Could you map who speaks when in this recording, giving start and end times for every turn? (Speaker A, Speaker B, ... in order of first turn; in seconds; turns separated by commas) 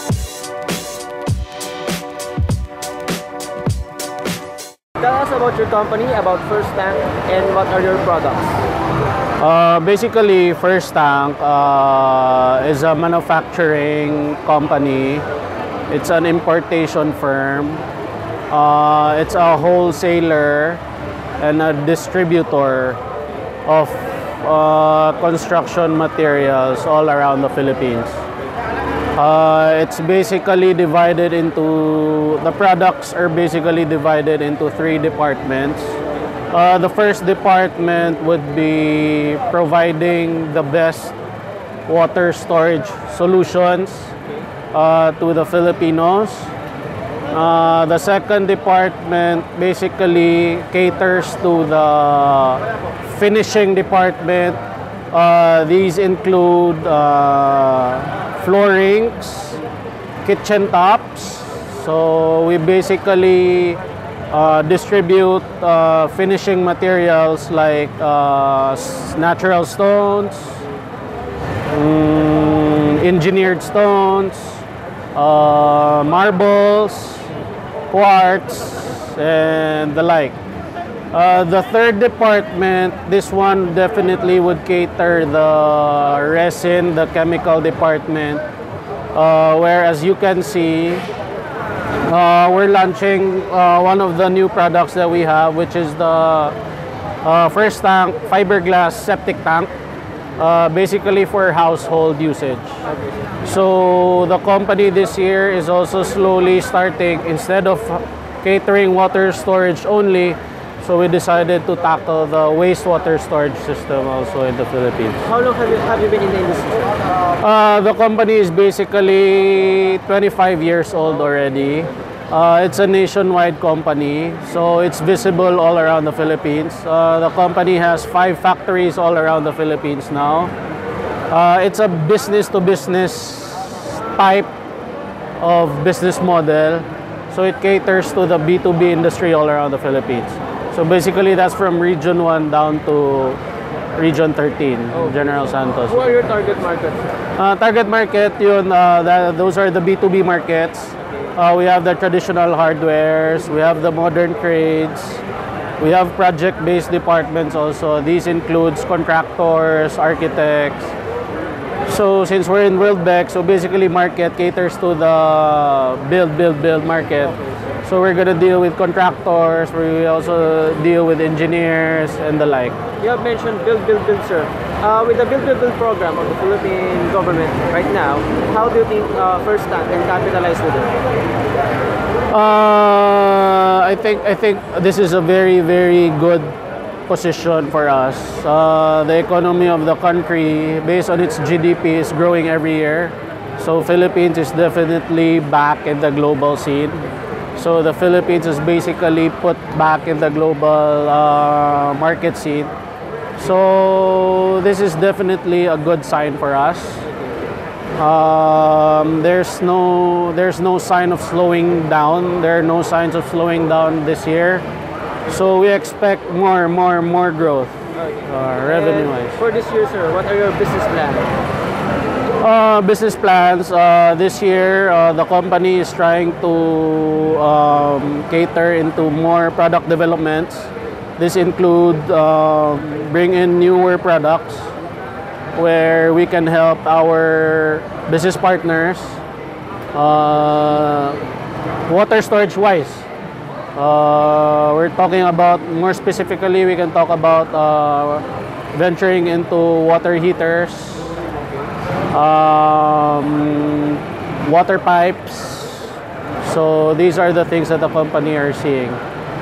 Speaker A: 5.0-8.6, Speaker B: 9.4-15.2, Speaker B: 15.9-17.9, Speaker B: 18.5-20.8, Speaker B: 21.4-23.0, Speaker B: 23.7-28.2, Speaker B: 29.1-36.0, Speaker B: 36.5-41.2, Speaker B: 41.9-44.1, Speaker B: 44.7-46.5, Speaker B: 47.3-54.6, Speaker B: 55.1-59.6, Speaker B: 60.2-63.8, Speaker B: 64.3-70.7, Speaker B: 71.7-77.3, Speaker B: 77.9-80.4, Speaker B: 81.1-88.4, Speaker B: 89.1-91.0, Speaker B: 92.0-96.6, Speaker B: 97.2-99.7, Speaker B: 100.4-102.8, Speaker B: 103.4-115.3, Speaker A: 115.3-116.9, Speaker B: 117.4-130.5, Speaker B: 131.3-134.5, Speaker B: 135.4-143.4, Speaker B: 144.0-146.2, Speaker A: 145.9-147.0, Speaker B: 147.4-155.2, Speaker B: 155.8-160.9, Speaker B: 161.9-172.8, Speaker A: 173.0-181.0, Speaker B: 182.3-186.6, Speaker B: 187.1-197.0, Speaker B: 197.6-202.7, Speaker B: 203.4-207.1, Speaker B: 208.0-214.6, Speaker B: 215.3-219.4, Speaker A: 218.2-221.3, Speaker B: 222.4-234.7, Speaker B: 235.6-239.2, Speaker B: 239.9-241.2, Speaker B: 241.9-243.1, Speaker B: 243.8-251.2, Speaker B: 252.1-259.0